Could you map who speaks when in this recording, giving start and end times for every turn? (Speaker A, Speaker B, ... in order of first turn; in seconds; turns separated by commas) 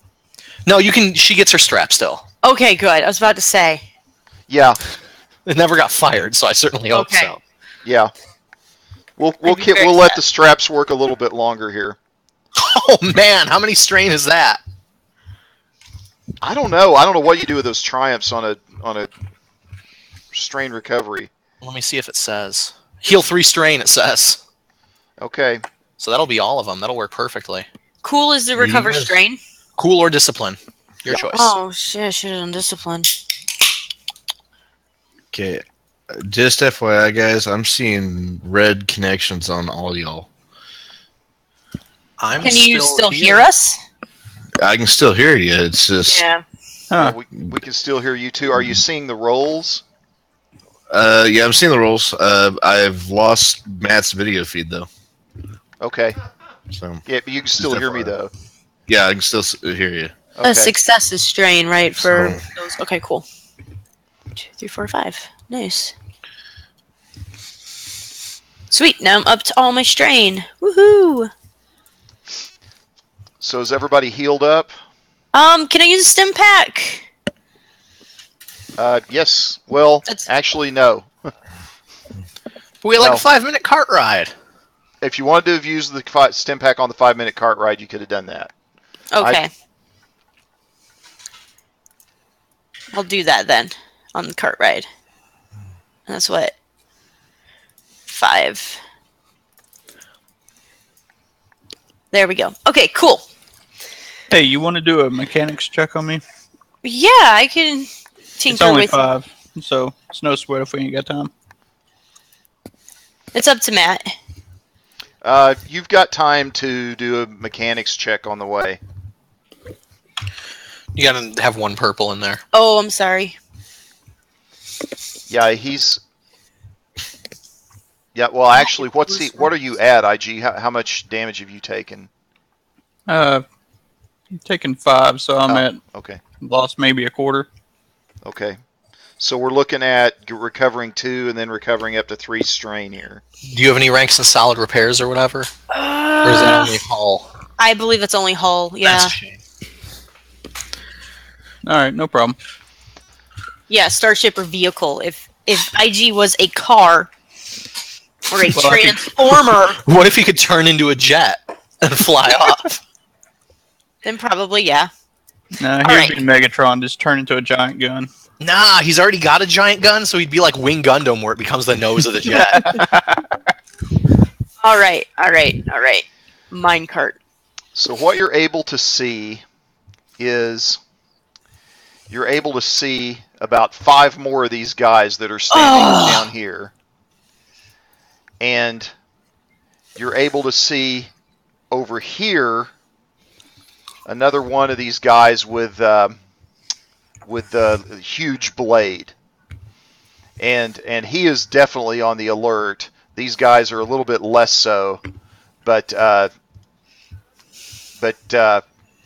Speaker A: 0.7-2.2, Speaker B: 2.4-3.9, Speaker C: 4.5-4.8, Speaker A: 5.5-7.4, Speaker B: 6.9-7.3, Speaker C: 7.8-8.1, Speaker C: 9.2-12.0, Speaker B: 9.4-10.2, Speaker A: 12.6-14.6, Speaker C: 16.4-19.1, Speaker C: 20.3-21.3, Speaker A: 21.6-24.4, Speaker C: 25.2-25.6, Speaker A: 26.0-27.7, Speaker B: 28.0-29.4, Speaker D: 28.6-28.9, Speaker A: 28.7-29.1, Speaker A: 29.8-31.5, Speaker B: 31.1-33.1, Speaker D: 35.3-40.3, Speaker A: 42.2-43.5, Speaker B: 42.4-43.8, Speaker D: 44.6-46.2, Speaker B: 46.1-46.4, Speaker E: 46.9-47.2, Speaker C: 47.0-49.8, Speaker D: 50.9-54.9, Speaker C: 55.8-56.2, Speaker D: 56.7-57.0, Speaker C: 57.1-58.3, Speaker D: 57.6-58.1, Speaker D: 58.9-60.1, Speaker C: 60.4-60.7, Speaker B: 60.4-63.3, Speaker D: 62.0-62.4, Speaker B: 64.4-65.9, Speaker B: 68.7-71.3, Speaker C: 73.4-74.7, Speaker B: 75.3-77.0, Speaker C: 78.8-81.1, Speaker A: 82.8-84.3, Speaker C: 83.0-83.2, Speaker C: 85.0-88.5, Speaker B: 89.1-89.5, Speaker B: 92.9-94.9, Speaker B: 96.1-96.5, Speaker B: 98.1-98.8, Speaker B: 102.1-103.3, Speaker E: 104.3-106.2, Speaker B: 106.8-109.0, Speaker E: 108.5-111.3, Speaker B: 113.3-114.1, Speaker C: 115.2-118.8, Speaker A: 121.0-122.4, Speaker B: 122.5-123.4, Speaker C: 125.3-126.0, Speaker C: 128.2-132.1, Speaker B: 129.1-129.5, Speaker E: 133.1-133.4, Speaker E: 134.4-135.8, Speaker C: 135.5-136.2, Speaker E: 136.4-137.5, Speaker C: 138.2-138.6, Speaker C: 139.2-143.2, Speaker A: 143.5-145.5, Speaker B: 145.7-146.8, Speaker A: 146.2-147.3, Speaker B: 147.6-149.2, Speaker A: 148.8-149.4, Speaker E: 151.6-152.4, Speaker B: 153.7-157.1, Speaker B: 158.3-159.8, Speaker E: 158.6-159.0, Speaker A: 159.8-162.8, Speaker B: 164.0-164.9, Speaker E: 165.6-168.1, Speaker B: 165.8-166.2, Speaker A: 168.4-172.8, Speaker E: 172.4-172.9, Speaker B: 174.6-177.2, Speaker C: 177.8-179.4, Speaker C: 180.2-180.8, Speaker C: 182.1-186.7, Speaker B: 185.5-186.3, Speaker C: 188.4-188.9, Speaker C: 190.0-191.1, Speaker C: 191.7-192.7, Speaker C: 194.1-196.2, Speaker C: 197.3-199.1, Speaker C: 200.4-205.0, Speaker C: 205.7-206.3, Speaker C: 208.0-208.6